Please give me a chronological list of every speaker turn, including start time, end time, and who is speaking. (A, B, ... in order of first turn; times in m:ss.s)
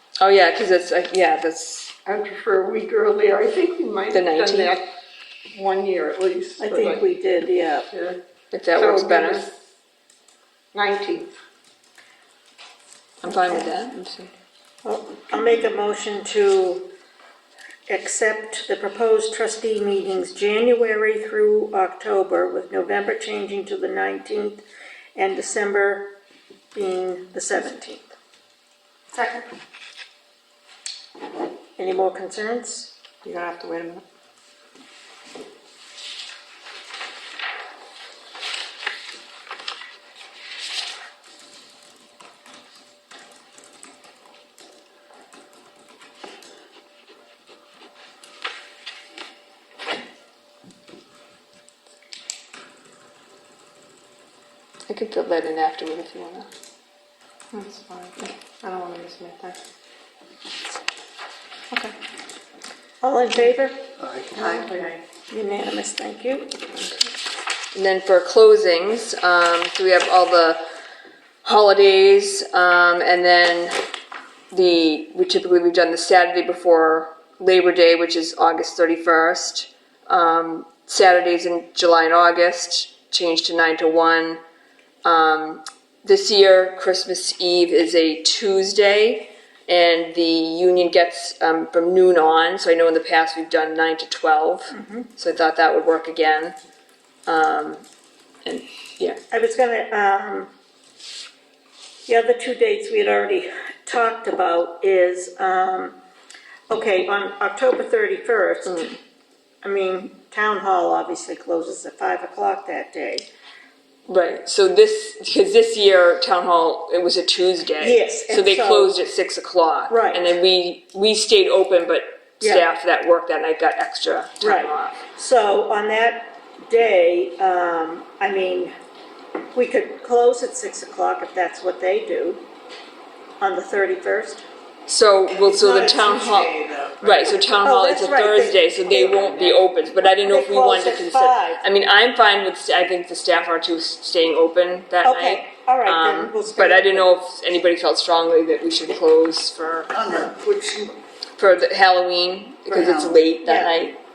0:00.2-0:01.9 A
0:02.1-0:04.9 B
0:04.1-0:04.8 A
0:05.5-0:07.0 B
0:06.6-0:07.9 C
0:07.9-0:08.2 B
0:08.5-0:09.5 A
0:08.7-0:09.5 B
0:10.7-0:11.4 B
0:13.2-0:14.3 A
0:14.8-0:16.9 C
0:17.9-0:24.6 C
0:25.2-0:26.2 C
0:26.7-0:28.1 C
0:29.1-0:29.4 C
0:31.8-0:33.0 C
0:33.3-0:34.0 D
0:54.9-0:56.5 A
0:57.8-0:59.5 A
1:03.0-1:03.9 C
1:04.4-1:04.8 E
1:04.4-1:04.9 D
1:05.3-1:06.5 C
1:06.8-1:07.1 A
1:07.7-1:10.6 A
1:11.4-1:13.8 A
1:14.5-1:24.4 A
1:25.0-1:36.6 A
1:34.7-1:35.1 C
1:37.3-1:37.8 A
1:38.4-1:39.2 A
1:39.3-1:40.5 C
1:42.1-1:46.0 C
1:46.7-1:49.0 C
1:48.7-1:49.0 A
1:49.6-1:53.3 C
1:54.1-2:05.0 A
1:57.8-1:59.0 C
1:59.9-2:00.3 C
2:04.4-2:08.7 C
2:09.5-2:12.4 C
2:13.4-2:14.4 C
2:14.9-2:30.3 A
2:15.4-2:17.4 D
2:17.6-2:19.4 C
2:18.9-2:19.6 D
2:20.2-2:21.6 C
2:25.0-2:27.1 C
2:29.9-2:31.0 E
2:31.4-2:34.0 A
2:32.7-2:33.2 E
2:33.4-2:33.8 C